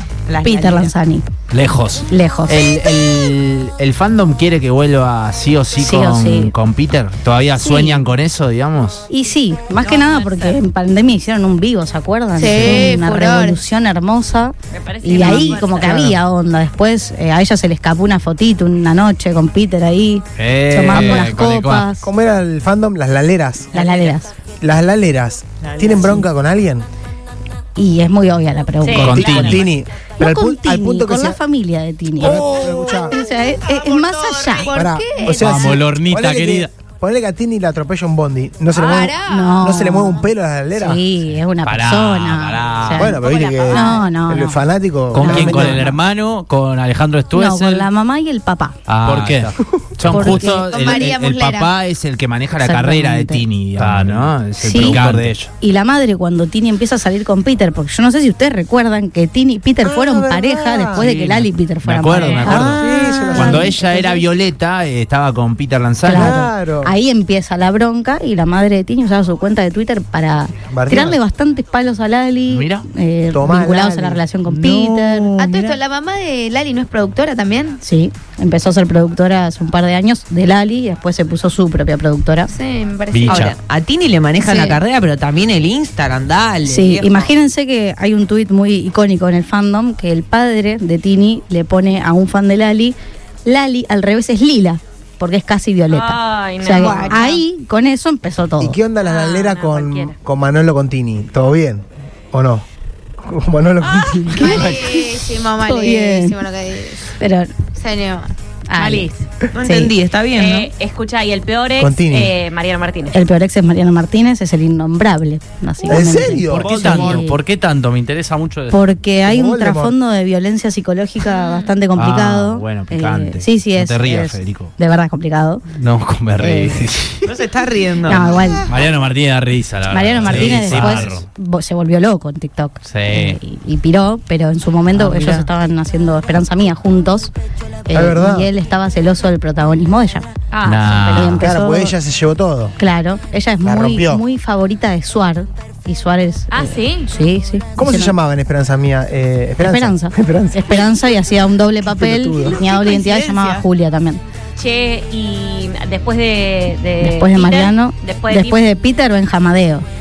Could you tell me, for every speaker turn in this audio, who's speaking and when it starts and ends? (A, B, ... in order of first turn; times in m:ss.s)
0:00.3-0:00.9 A
0:00.4-0:01.3 B
0:01.5-0:02.1 C
0:02.1-0:02.7 B
0:02.5-0:09.1 D
0:05.8-0:06.5 B
0:07.6-0:08.1 B
0:09.1-0:22.1 B
0:09.8-0:10.6 E
0:12.4-0:13.6 F
0:14.7-0:16.1 E
0:15.2-0:15.5 F
0:20.4-0:21.9 C
0:20.9-0:21.2 D
0:22.0-0:23.7 G
0:23.7-0:24.2 A
0:23.7-0:24.3 B
0:24.6-0:26.9 G
0:25.6-0:26.2 A
0:27.8-0:29.6 B
0:28.8-0:29.3 E
0:29.0-0:29.6 D
0:29.1-0:31.4 G
0:30.2-0:34.7 B
0:32.2-0:33.2 G
0:32.2-0:35.8 F
0:34.7-0:41.0 G
0:35.3-0:36.7 C
0:38.7-0:39.6 F
0:39.2-0:44.6 B
0:41.6-0:43.2 C
0:43.0-0:45.9 G
0:43.1-0:44.0 F
0:45.1-0:47.9 C
0:45.2-0:46.0 B
0:47.3-0:48.8 B
0:48.9-0:50.4 C
0:49.0-0:55.4 D
0:50.1-0:50.7 B
0:50.5-0:51.8 F
0:52.6-0:53.4 B
0:53.8-0:55.5 C
0:54.6-0:55.1 B
0:55.6-1:04.2 B
0:59.8-1:01.1 G
1:01.2-1:06.3 D
1:02.2-1:02.6 E
1:02.6-1:03.8 G
1:06.0-1:15.4 B
1:06.1-1:06.9 G
1:10.7-1:11.2 G
1:12.5-1:12.9 D
1:13.3-1:15.8 G
1:15.4-1:17.8 F
1:17.8-1:22.5 B
1:22.5-1:23.5 F
1:23.1-1:23.6 C
1:23.3-1:27.3 A
1:24.4-1:24.8 B
1:26.6-1:38.8 B
1:35.9-1:37.4 E
1:36.7-1:37.2 F
1:38.6-1:42.6 G
1:39.0-1:40.2 E
1:43.2-1:45.0 G
1:44.3-1:47.1 F
1:45.6-1:46.4 B
1:47.2-1:47.5 B
1:47.8-1:48.3 F
1:48.7-1:49.1 B
1:48.8-1:49.2 E
1:49.5-1:50.7 A
1:49.6-1:49.9 B
1:50.4-1:53.2 E
1:51.8-1:52.4 G
1:53.1-1:57.4 B
1:55.9-1:57.2 G
1:56.5-1:58.8 C
1:58.7-2:05.6 B
1:59.2-2:00.0 G
2:01.3-2:01.7 E
2:02.0-2:04.7 D
2:05.7-2:07.3 C
2:06.4-2:06.8 B
2:07.3-2:08.4 A
2:08.1-2:08.7 B
2:08.7-2:11.2 C
2:09.9-2:17.3 B
2:10.2-2:11.2 D
2:12.8-2:13.4 C
2:15.0-2:15.4 C
2:17.9-2:20.3 B
2:17.9-2:18.5 G
2:20.5-2:21.4 E
2:20.6-2:21.5 C
2:21.1-2:22.0 B
2:21.4-2:22.8 G
2:22.8-2:28.1 B
2:23.6-2:24.2 G
2:26.5-2:27.1 E
2:27.8-2:31.2 G
2:29.6-2:34.2 B
2:31.8-2:32.6 G
2:32.4-2:33.6 A
2:34.6-2:38.6 E
2:37.0-2:39.9 B